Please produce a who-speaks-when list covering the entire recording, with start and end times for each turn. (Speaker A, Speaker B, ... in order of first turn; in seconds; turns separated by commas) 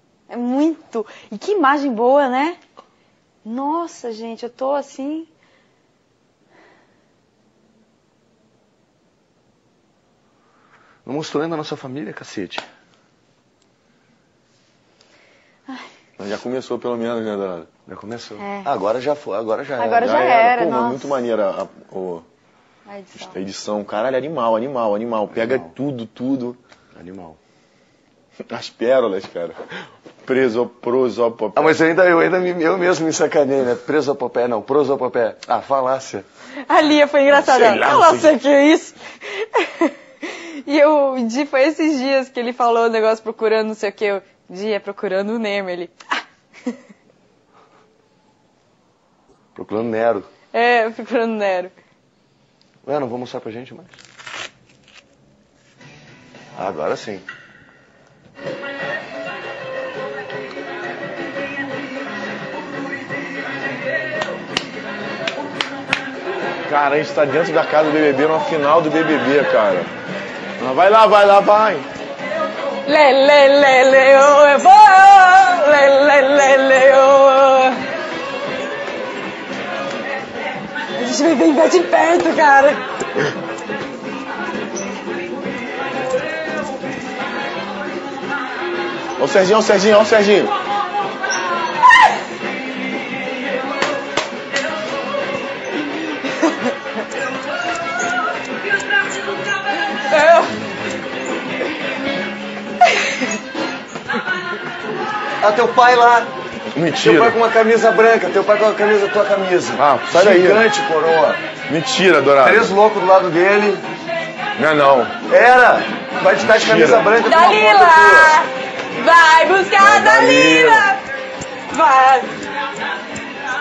Speaker A: 0.3-2.6, Speaker A: 3.4-5.3, Speaker B: 11.0-12.7, Speaker C: 16.2-17.7, Speaker B: 17.9-20.2, Speaker A: 18.4-18.7, Speaker A: 19.8-21.2, Speaker C: 20.0-22.2, Speaker A: 22.9-23.4, Speaker C: 23.1-26.6, Speaker B: 25.3-25.7, Speaker B: 26.9-27.4, Speaker C: 28.5-29.6, Speaker C: 30.2-31.8, Speaker B: 31.5-36.2, Speaker A: 36.6-46.0, Speaker C: 37.3-38.3, Speaker B: 49.5-50.3, Speaker A: 50.5-51.7, Speaker B: 52.8-54.0, Speaker B: 56.5-57.2, Speaker C: 66.6-69.9, Speaker C: 70.6-71.9, Speaker A: 72.8-77.8, Speaker A: 80.9-82.8, Speaker C: 89.2-90.5, Speaker A: 99.9-100.6, Speaker B: 105.4-106.3, Speaker C: 106.7-107.4, Speaker B: 107.0-111.4, Speaker C: 109.8-110.6, Speaker C: 111.7-112.7, Speaker B: 112.4-113.8, Speaker C: 114.6-115.2, Speaker B: 115.3-118.4, Speaker C: 116.4-117.1, Speaker A: 117.2-121.0, Speaker C: 119.8-120.9, Speaker A: 121.7-122.3